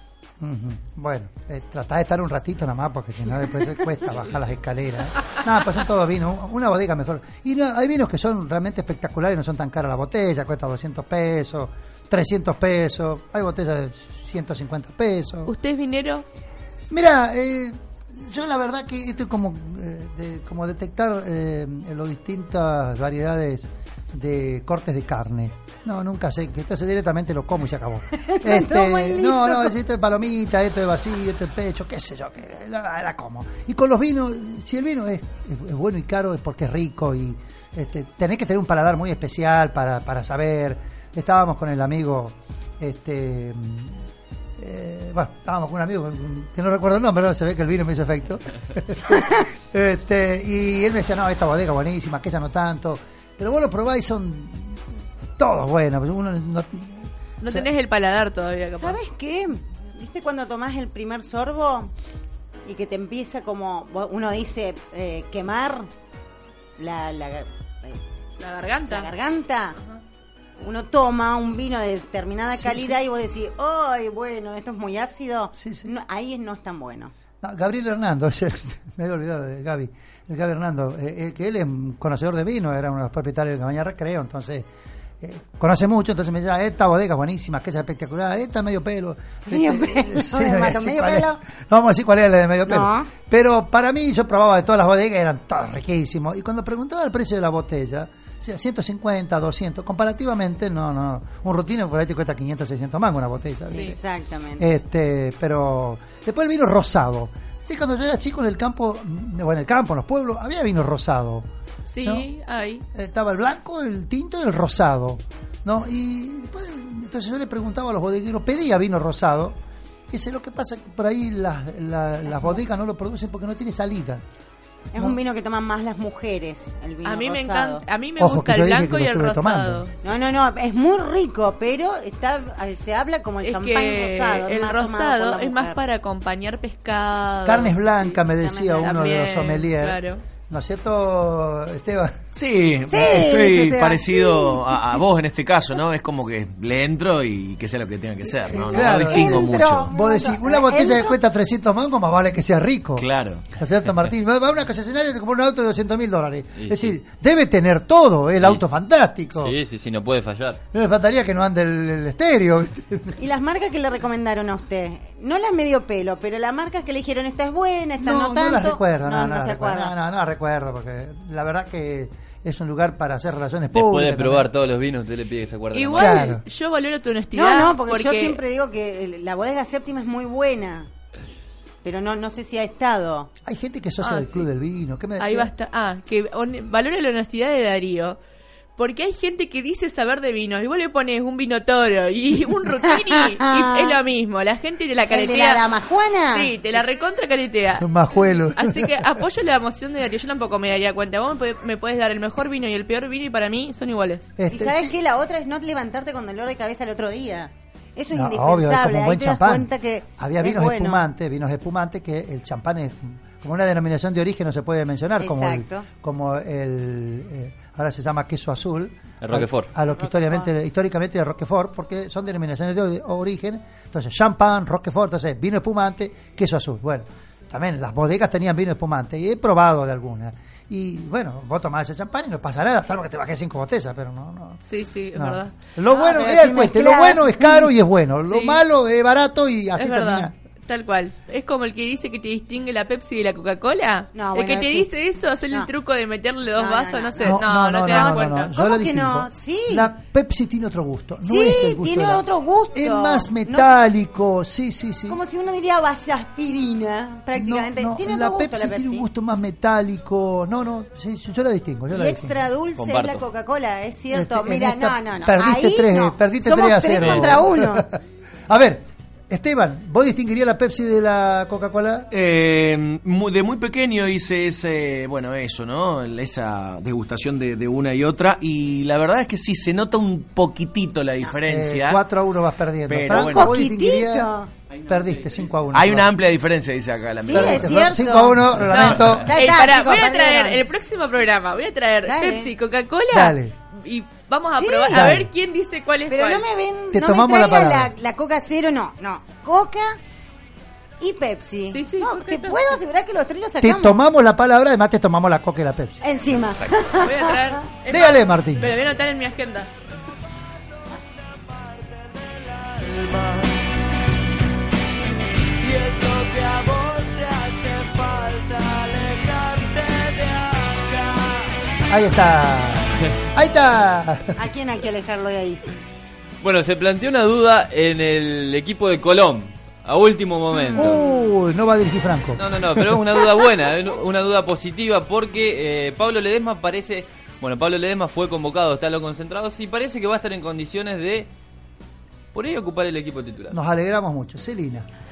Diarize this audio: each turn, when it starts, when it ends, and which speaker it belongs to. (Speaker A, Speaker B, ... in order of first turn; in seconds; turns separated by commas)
Speaker A: 0.4-15.5, Speaker B: 15.4-16.3, Speaker A: 16.9-44.0, Speaker C: 28.2-29.8, Speaker A: 44.6-54.8, Speaker A: 55.4-57.7, Speaker B: 57.4-59.0, Speaker C: 58.7-61.9, Speaker C: 62.7-65.9, Speaker C: 66.8-68.0, Speaker B: 68.4-69.1, Speaker C: 68.9-69.8, Speaker C: 70.6-77.1, Speaker A: 72.5-73.0, Speaker A: 75.5-75.9, Speaker A: 77.4-84.7, Speaker A: 85.2-104.0, Speaker C: 89.5-91.4, Speaker C: 92.7-93.1, Speaker C: 103.7-104.7, Speaker A: 104.6-111.5, Speaker B: 111.9-112.8, Speaker A: 112.9-119.6, Speaker A: 120.1-124.2, Speaker C: 125.0-127.8, Speaker B: 127.0-129.9, Speaker A: 128.2-129.8, Speaker C: 130.0-135.8, Speaker B: 133.4-137.8, Speaker A: 137.4-142.2, Speaker C: 138.0-139.1, Speaker B: 138.8-140.2, Speaker D: 142.3-149.9, Speaker C: 142.9-144.8, Speaker A: 148.5-159.6, Speaker C: 148.7-151.2, Speaker D: 153.0-153.5, Speaker E: 156.6-156.9, Speaker E: 159.4-160.6, Speaker A: 160.7-163.1, Speaker C: 163.2-169.9, Speaker A: 168.0-174.5, Speaker E: 173.7-176.2, Speaker B: 175.7-178.4, Speaker A: 176.0-176.4, Speaker C: 177.3-180.9, Speaker C: 181.8-183.3, Speaker A: 183.4-185.5, Speaker B: 184.0-184.5, Speaker B: 185.2-188.2, Speaker B: 188.8-195.7, Speaker C: 192.8-194.0, Speaker C: 195.1-196.6, Speaker B: 196.3-197.9, Speaker A: 197.8-199.1, Speaker B: 198.6-204.3, Speaker A: 204.4-205.0, Speaker C: 204.5-211.0, Speaker A: 208.1-234.6, Speaker C: 215.2-215.9, Speaker E: 219.2-219.7, Speaker C: 219.9-220.5, Speaker B: 234.6-235.6, Speaker A: 235.1-240.3, Speaker C: 235.9-237.7, Speaker B: 238.3-238.6, Speaker B: 239.8-248.6, Speaker C: 244.1-244.9, Speaker C: 246.6-249.9, Speaker A: 247.2-255.2, Speaker C: 251.3-253.7, Speaker B: 252.9-253.2, Speaker C: 255.1-259.1, Speaker A: 257.4-262.4, Speaker C: 261.9-267.8, Speaker E: 262.8-263.2, Speaker A: 264.1-267.9, Speaker E: 267.0-267.4, Speaker A: 268.5-272.1, Speaker D: 272.1-282.0, Speaker A: 281.4-284.3, Speaker D: 282.9-283.6, Speaker C: 283.1-284.5, Speaker A: 284.9-286.1, Speaker D: 285.7-287.7, Speaker C: 287.2-290.6, Speaker A: 287.3-289.3, Speaker B: 288.7-296.4, Speaker C: 292.1-292.5, Speaker A: 293.1-293.5, Speaker C: 294.5-295.2, Speaker A: 294.9-295.3, Speaker C: 296.1-300.0, Speaker A: 296.9-297.9, Speaker C: 301.0-304.0, Speaker B: 301.7-302.8, Speaker A: 303.6-306.0, Speaker C: 306.0-307.6, Speaker B: 307.0-309.7, Speaker A: 307.9-308.8, Speaker F: 315.7-320.3, Speaker A: 321.9-324.3, Speaker C: 324.4-325.6, Speaker E: 326.4-331.0, Speaker A: 330.8-333.2, Speaker E: 332.4-341.3, Speaker E: 342.3-343.6, Speaker A: 343.5-344.9